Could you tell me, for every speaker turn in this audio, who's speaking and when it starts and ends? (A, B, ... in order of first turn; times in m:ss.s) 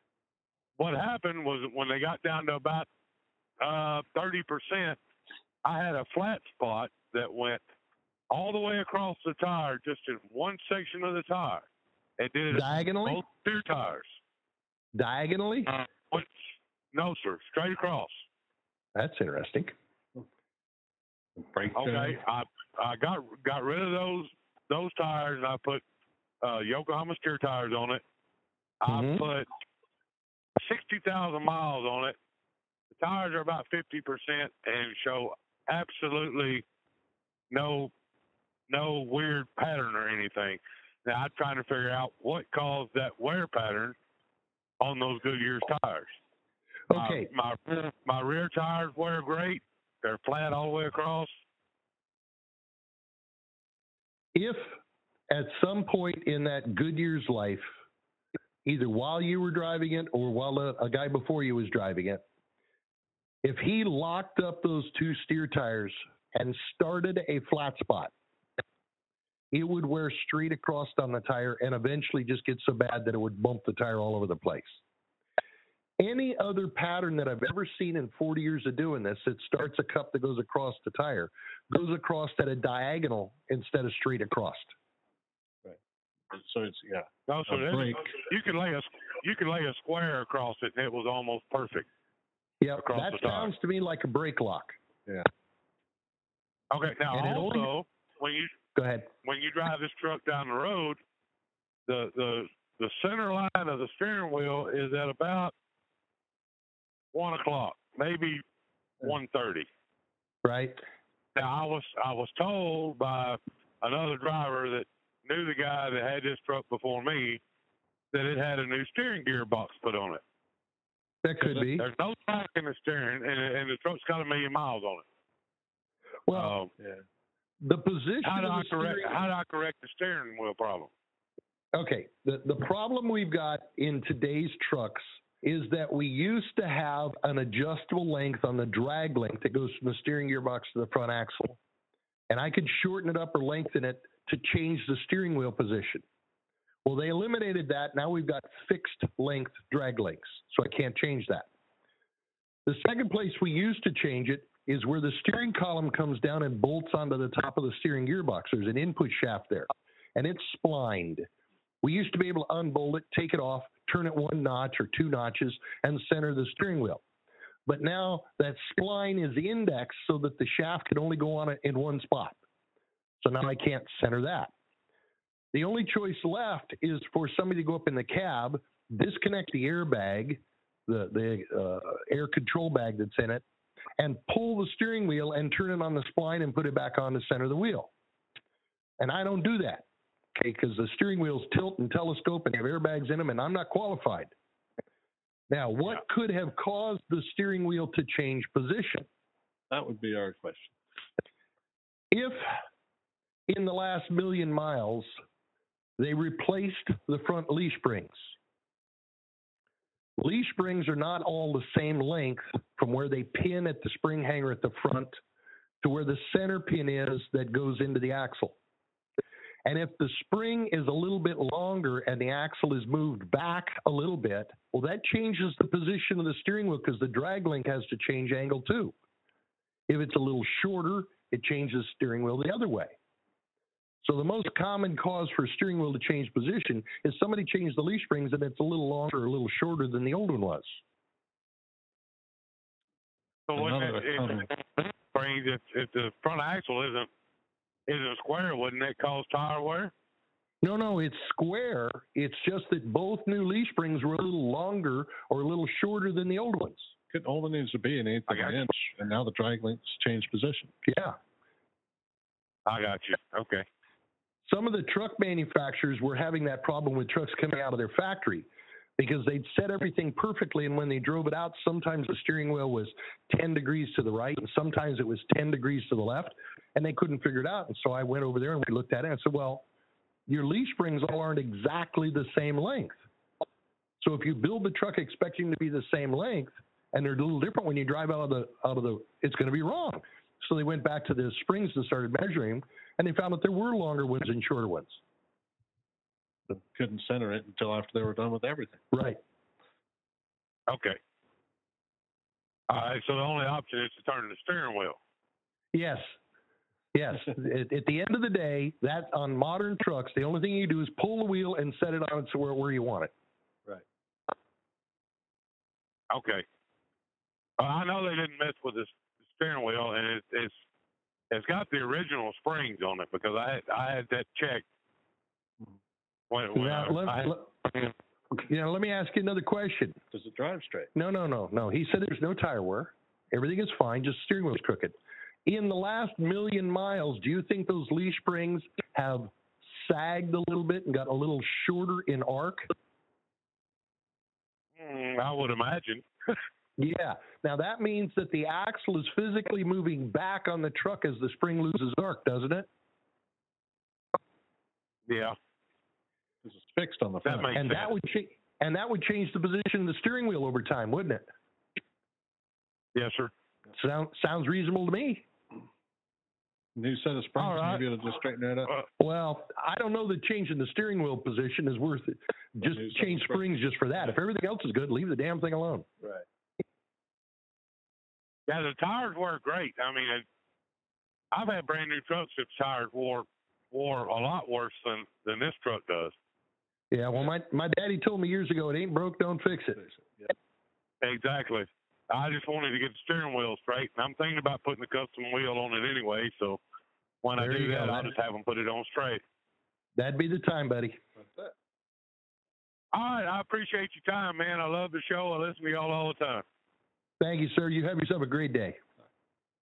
0:00.8-0:02.9 A
0:03.6-0:05.0 A
0:05.6-0:07.6 A
0:08.3-0:11.6 A
0:12.2-0:14.1 A
0:12.5-0:13.2 B
0:14.9-0:15.7 B
0:15.7-0:16.3 A
0:16.9-0:18.2 A
0:18.9-0:19.7 B
0:21.4-0:22.2 C
0:21.7-0:25.8 A
0:26.4-0:28.0 A
0:28.8-0:29.5 A
0:28.9-0:29.2 B
0:30.6-0:32.2 A
0:32.9-0:36.6 A
0:37.5-0:37.9 A
0:38.7-0:44.0 A
0:44.8-0:46.1 A
0:46.9-0:47.3 B
0:46.9-0:51.3 A
0:54.3-0:54.7 B
0:55.3-0:57.7 B
0:58.6-1:02.2 B
1:03.4-1:08.1 B
1:09.5-1:14.8 B
1:16.0-1:24.7 B
1:26.3-1:28.2 C
1:27.3-1:31.8 A
1:32.6-1:34.8 B
1:32.8-1:33.5 A
1:36.7-1:38.6 A
1:37.1-1:37.7 B
1:38.7-1:39.1 B
1:39.2-1:41.0 A
1:41.9-1:45.5 A
1:47.1-1:48.4 A
1:49.0-1:49.7 A
1:50.4-1:50.8 B
1:51.3-1:57.4 A
1:58.1-2:00.2 A
2:01.2-2:01.8 B
2:01.5-2:05.0 A
2:06.3-2:06.6 B
2:06.3-2:06.7 A
2:07.6-2:09.2 B
2:08.2-2:10.9 A
2:11.7-2:21.6 B
2:22.3-2:26.0 B
2:26.8-2:31.5 B
2:32.6-2:41.3 B
2:41.8-2:47.0 B
2:47.6-2:52.4 B
2:53.2-2:54.5 B
2:55.5-3:03.4 B
3:04.0-3:07.9 B
3:09.0-3:14.3 B
3:15.5-3:19.1 B
3:19.7-3:20.8 C
3:22.1-3:22.4 B
3:23.5-3:25.1 B
3:26.0-3:28.3 B
3:30.2-3:35.2 B
3:35.8-3:38.6 B
3:39.6-3:48.9 B
3:49.9-3:53.0 B
3:54.0-4:00.8 B
4:03.5-4:07.1 A
4:03.5-4:04.5 C
4:07.9-4:09.9 A
4:10.6-4:16.9 B
4:17.1-4:20.7 C
4:18.3-4:18.6 A
4:20.9-4:21.2 B
4:22.6-4:23.6 A
4:24.4-4:39.6 B
4:40.3-4:43.0 B
4:44.0-4:55.0 B
4:56.5-4:58.8 C
4:58.9-4:59.2 B
5:00.7-5:01.0 A
5:02.7-5:05.0 A
5:05.7-5:06.1 B
5:06.9-5:13.1 B
5:16.1-5:16.4 A
5:17.6-5:20.6 A
5:21.3-5:24.6 A
5:26.3-5:27.3 A
5:26.5-5:30.0 B
5:30.1-5:30.9 C
5:30.9-5:42.7 B
5:44.8-5:46.3 A
5:46.8-5:52.7 B
5:55.1-5:55.4 A
5:56.4-5:57.5 C
5:57.2-5:57.9 A
5:57.5-6:01.2 B
6:02.9-6:03.3 A
6:03.7-6:05.2 B
6:06.8-6:08.7 C
6:07.4-6:07.8 A
6:09.0-6:15.9 B
6:12.6-6:13.4 C
6:18.5-6:20.2 A
6:21.3-6:26.1 A
6:26.9-6:29.8 B
6:29.8-6:30.3 C
6:31.0-6:36.6 A
6:37.2-6:39.2 A
6:37.4-6:38.1 B
6:40.0-6:41.0 B
6:41.2-6:41.5 C
6:42.9-6:46.4 A
6:47.2-6:48.8 B